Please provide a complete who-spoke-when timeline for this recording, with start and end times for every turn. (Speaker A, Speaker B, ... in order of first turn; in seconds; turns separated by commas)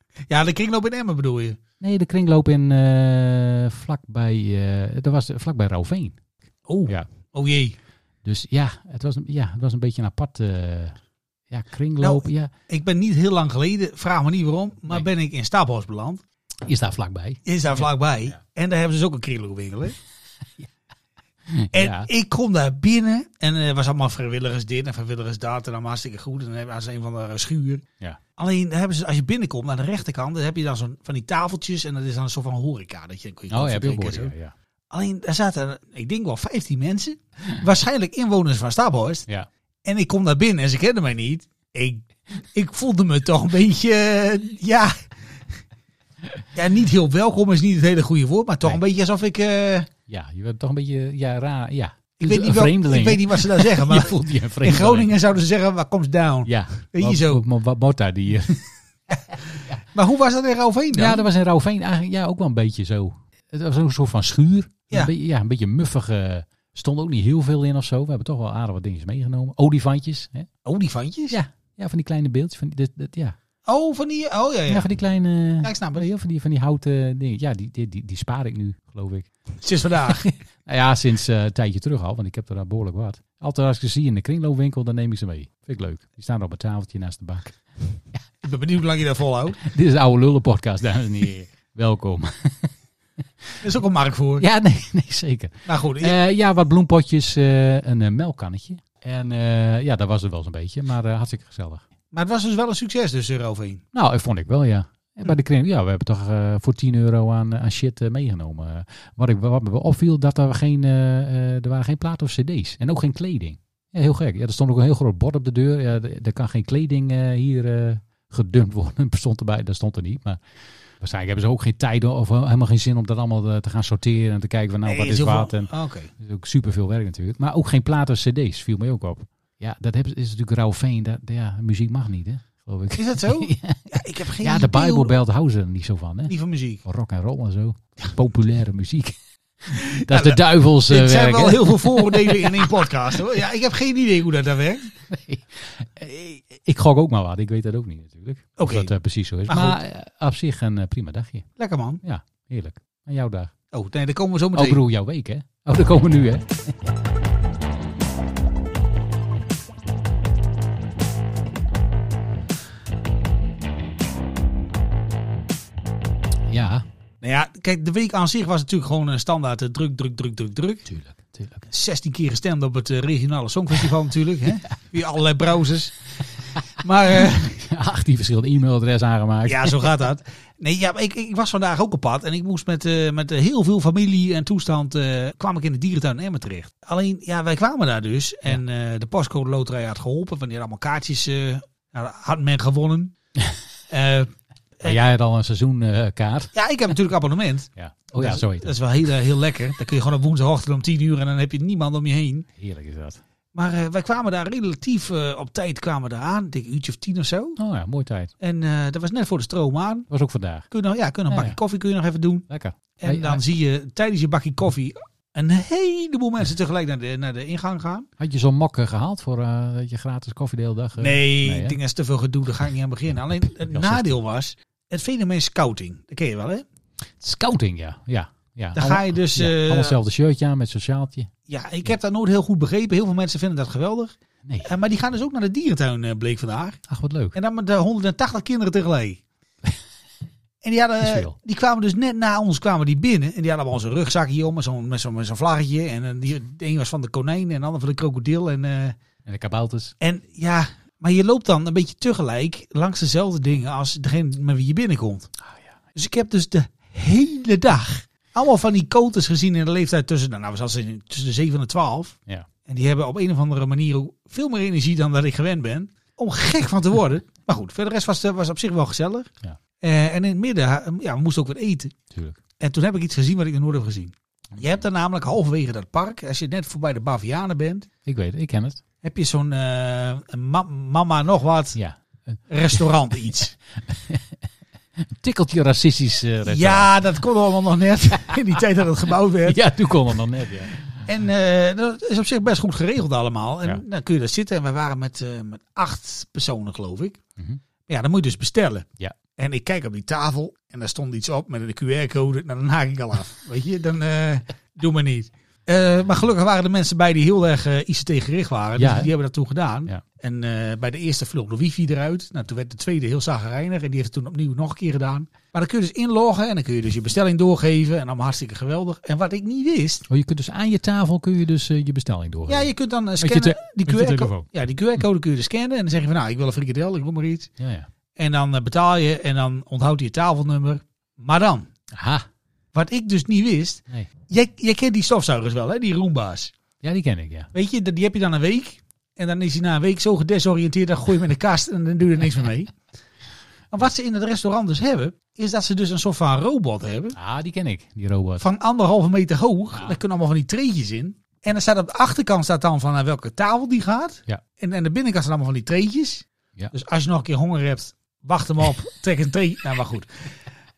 Speaker A: 0.3-1.6, Speaker B: 1.8-6.2, Speaker A: 6.7-7.8, Speaker B: 8.2-11.0, Speaker B: 11.5-12.5, Speaker A: 12.0-16.2, Speaker B: 16.7-17.8, Speaker A: 17.5-20.0, Speaker B: 21.5-22.1, Speaker A: 21.7-27.8, Speaker A: 28.4-34.3, Speaker B: 33.5-34.5, Speaker A: 34.9-39.3, Speaker A: 39.9-45.1, Speaker A: 46.5-49.9, Speaker B: 50.1-55.1, Speaker A: 52.2-57.4, Speaker B: 56.5-58.6, Speaker A: 59.9-61.2, Speaker B: 60.9-70.5, Speaker A: 70.7-71.4, Speaker B: 71.3-73.4, Speaker A: 73.7-74.9, Speaker B: 74.7-79.3, Speaker A: 75.6-76.1, Speaker A: 79.6-80.2, Speaker B: 80.1-87.6, Speaker A: 88.4-89.6, Speaker B: 89.6-92.7, Speaker A: 93.6-94.5, Speaker B: 94.4-101.9, Speaker A: 95.7-96.2, Speaker A: 102.1-103.8, Speaker B: 103.9-120.4, Speaker B: 121.0-136.3, Speaker A: 124.9-126.1, Speaker A: 133.0-135.2, Speaker A: 136.3-136.8, Speaker B: 136.8-142.8, Speaker A: 139.7-144.9, Speaker B: 145.1-151.5, Speaker A: 148.6-148.9, Speaker A: 149.5-149.8, Speaker A: 151.6-152.0, Speaker B: 152.0-153.5, Speaker A: 153.7-154.8, Speaker B: 154.5-156.7, Speaker B: 166.5-166.8, Speaker A: 167.2-170.8, Speaker B: 170.9-171.7, Speaker A: 171.7-175.9, Speaker A: 176.8-177.6, Speaker B: 177.2-179.9, Speaker A: 179.5-193.1, Speaker A: 193.9-195.0, Speaker B: 194.8-196.5, Speaker A: 196.5-202.5, Speaker B: 197.8-198.8, Speaker B: 202.6-203.2, Speaker A: 203.6-207.6, Speaker B: 207.6-208.3, Speaker A: 208.4-210.1, Speaker B: 210.1-210.7, Speaker A: 210.7-212.4, Speaker B: 211.3-211.6, Speaker B: 212.5-213.4, Speaker A: 213.0-218.1, Speaker B: 218.2-221.8, Speaker A: 221.0-226.7, Speaker B: 223.7-224.2, Speaker B: 227.2-231.3, Speaker A: 228.8-230.0, Speaker A: 231.5-236.8, Speaker B: 236.9-237.4, Speaker A: 237.3-239.2, Speaker A: 240.6-249.0, Speaker B: 241.0-241.3, Speaker B: 249.2-249.9, Speaker A: 250.0-255.3, Speaker B: 255.4-255.8, Speaker A: 255.9-269.3, Speaker A: 269.8-271.9, Speaker B: 272.1-272.4, Speaker A: 272.6-277.9, Speaker B: 278.1-278.8, Speaker A: 279.0-281.8, Speaker B: 281.8-282.4, Speaker A: 282.5-283.6, Speaker B: 283.9-284.4, Speaker B: 285.0-286.9, Speaker A: 286.5-289.6, Speaker B: 289.4-290.9, Speaker A: 291.1-297.2, Speaker A: 297.9-320.1, Speaker B: 308.8-309.1, Speaker B: 320.1-324.5, Speaker A: 322.5-327.5, Speaker B: 327.6-327.9, Speaker A: 328.2-331.7, Speaker B: 331.9-332.3, Speaker A: 332.7-336.5, Speaker B: 336.8-337.5, Speaker A: 337.5-342.7, Speaker A: 343.7-347.2, Speaker B: 347.1-348.5, Speaker A: 348.4-360.3